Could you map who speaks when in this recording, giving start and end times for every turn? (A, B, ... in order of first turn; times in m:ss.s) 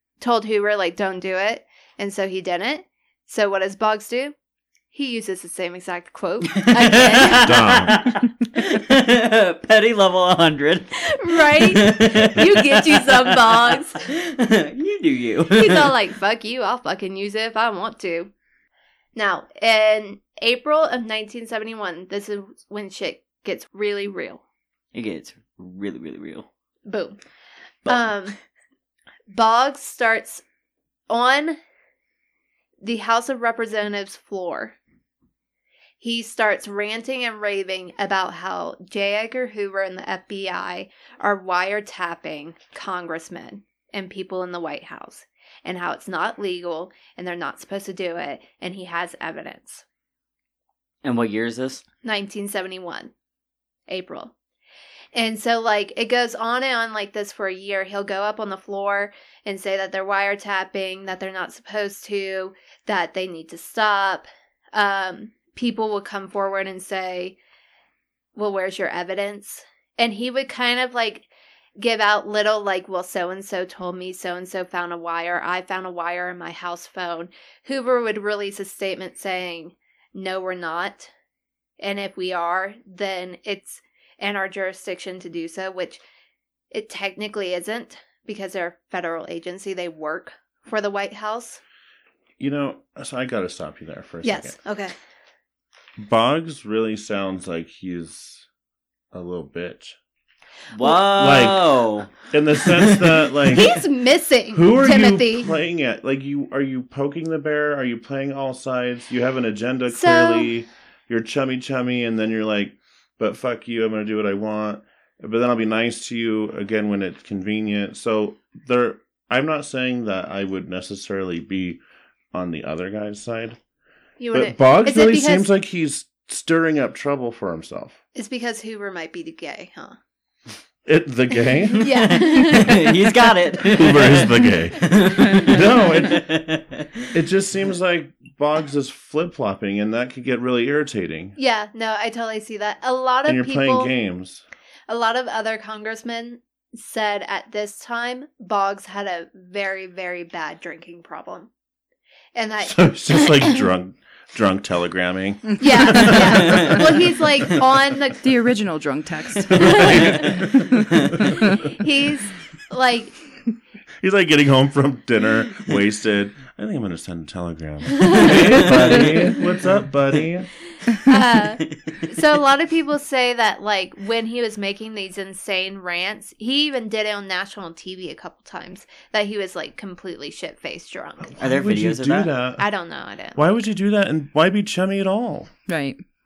0:00.2-0:04.4 A
0:04.9-0:07.5 A
0:06.8-0:15.9 B
0:07.4-0:08.0 C
0:11.1-0:14.0 A
0:15.5-0:18.3 A
0:19.2-0:24.4 A
0:24.9-0:26.5 B
0:26.8-0:27.2 A
0:27.9-0:28.4 A
0:29.3-0:30.4 A
0:31.1-0:31.6 A
0:32.8-0:34.8 A
0:36.0-0:49.8 A
0:51.0-0:51.8 B
0:52.0-0:53.1 A
0:53.9-0:54.3 A
0:55.1-1:07.4 A
1:08.4-1:21.1 A
1:21.8-1:26.0 A
1:26.7-1:31.6 A
1:32.4-1:34.6 C
1:34.2-1:34.9 A
1:36.0-1:38.5 C
1:39.1-1:40.0 C
1:40.7-1:42.1 B
1:41.1-1:43.8 C
1:42.7-1:43.0 B
1:43.5-1:45.5 A
1:44.5-2:01.8 C
1:49.9-1:50.5 A
2:02.3-2:03.6 C
2:04.2-2:05.5 A
2:04.3-2:08.0 C
2:08.2-2:10.0 A
2:10.9-2:11.9 C
2:11.8-2:12.8 A
2:12.0-2:16.8 B
2:13.7-2:16.4 C
2:17.1-2:21.4 C
2:21.4-2:23.9 A
2:23.3-2:24.4 C
2:24.9-2:31.5 A
2:32.4-2:33.6 A
2:32.6-2:37.1 C
2:35.6-2:38.3 A
2:38.2-2:41.6 D
2:39.7-2:40.3 C
2:41.6-2:43.2 A
2:44.0-2:50.5 C
2:48.1-2:49.3 B
2:51.1-3:01.4 A
3:01.4-3:02.3 B
3:01.4-3:05.6 C
3:02.6-3:03.4 A
3:05.7-3:06.0 D